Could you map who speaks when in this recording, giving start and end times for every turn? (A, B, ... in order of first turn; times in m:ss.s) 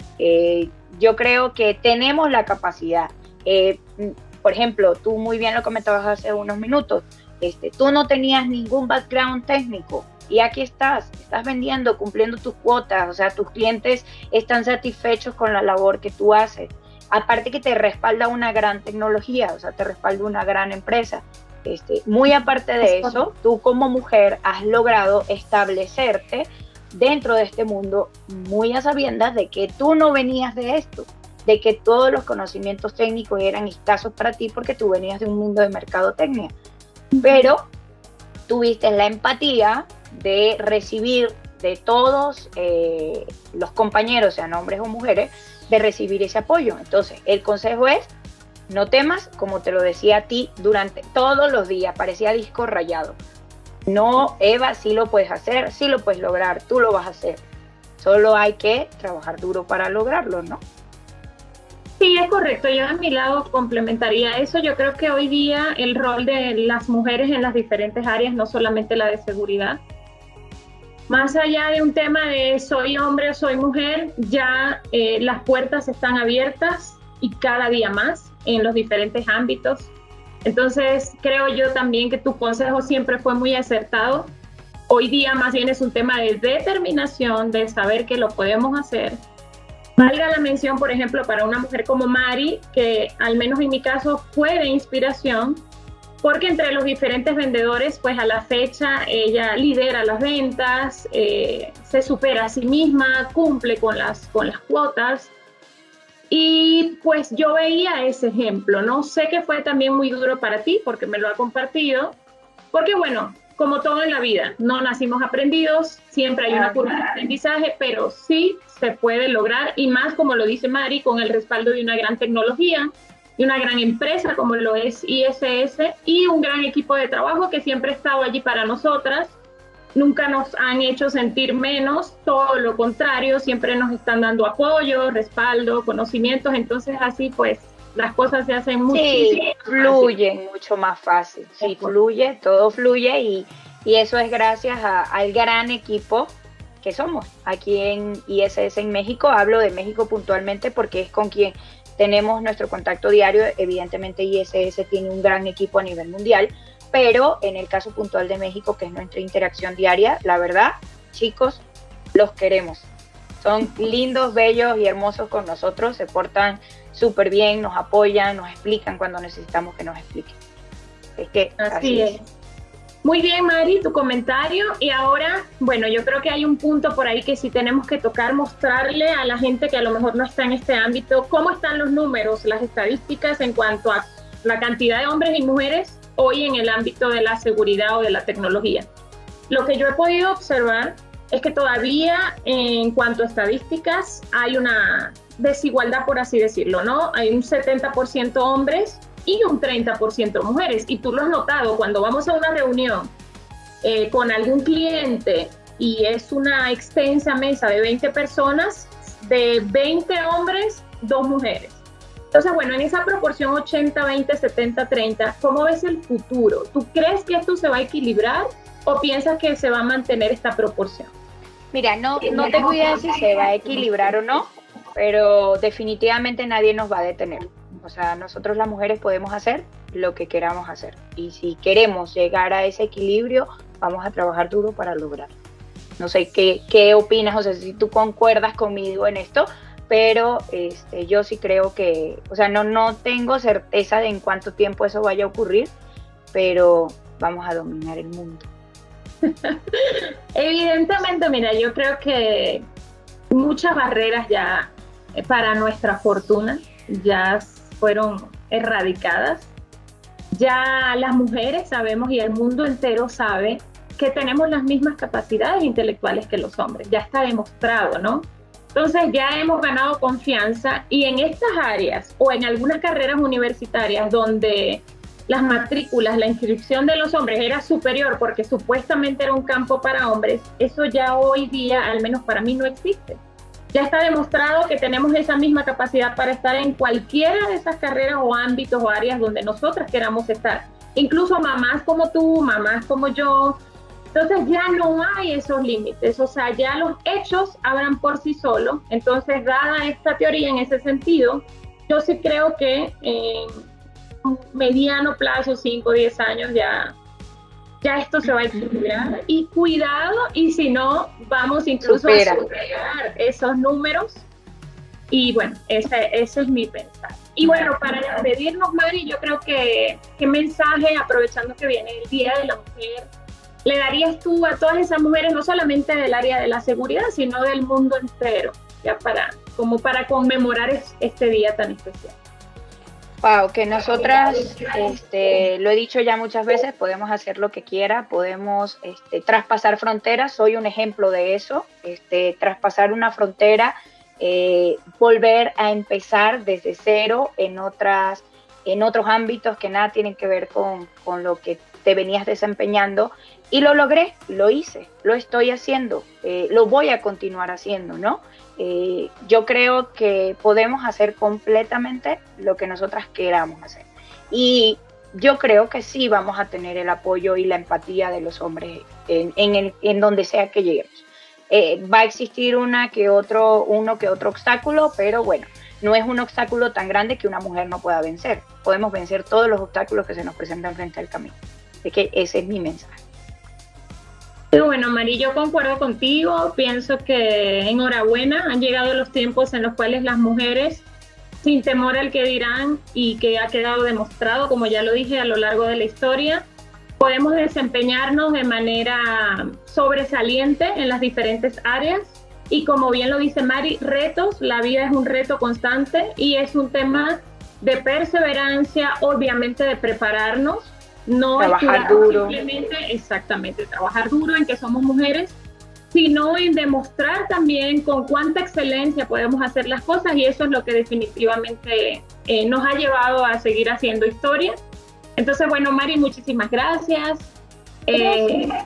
0:00.2-0:36.5 A
0:37.1-0:37.5 B
0:37.2-0:37.7 A
0:38.5-0:48.1 A
0:48.7-0:53.2 A
0:53.9-0:57.4 A
0:58.0-1:00.6 A
1:02.0-1:09.8 B
1:11.1-1:19.9 B
1:20.4-1:24.4 B
1:24.9-1:29.2 B
1:30.0-1:35.6 B
1:36.2-1:45.3 B
1:46.3-1:52.2 B
1:52.7-2:09.4 B
1:56.5-1:56.8 A
2:09.9-2:20.2 B
2:18.9-2:42.9 A
2:21.6-2:21.9 B
2:43.4-2:50.4 A
2:51.2-2:52.2 A
2:51.6-2:52.3 B
2:53.0-3:08.9 B
3:09.5-3:23.1 B
3:23.8-3:41.1 B
3:41.7-3:55.3 A
3:56.0-4:05.7 A
4:06.3-4:08.5 A
4:09.2-4:12.7 B
4:13.3-4:19.5 B
4:20.3-4:43.2 B
4:43.7-4:53.6 B
4:54.1-5:03.7 B
5:04.2-5:07.0 B
5:07.8-5:14.3 B
5:11.8-5:12.4 A
5:15.1-5:23.1 B
5:17.4-5:17.7 A
5:23.6-5:32.2 B
5:33.2-6:23.0 A
6:24.5-6:30.8 B
6:31.4-6:36.5 B
6:37.0-6:55.4 B
6:51.4-6:52.4 A
6:55.9-7:04.6 B
7:05.2-7:07.3 B
7:07.9-7:08.5 B
7:07.9-7:08.3 A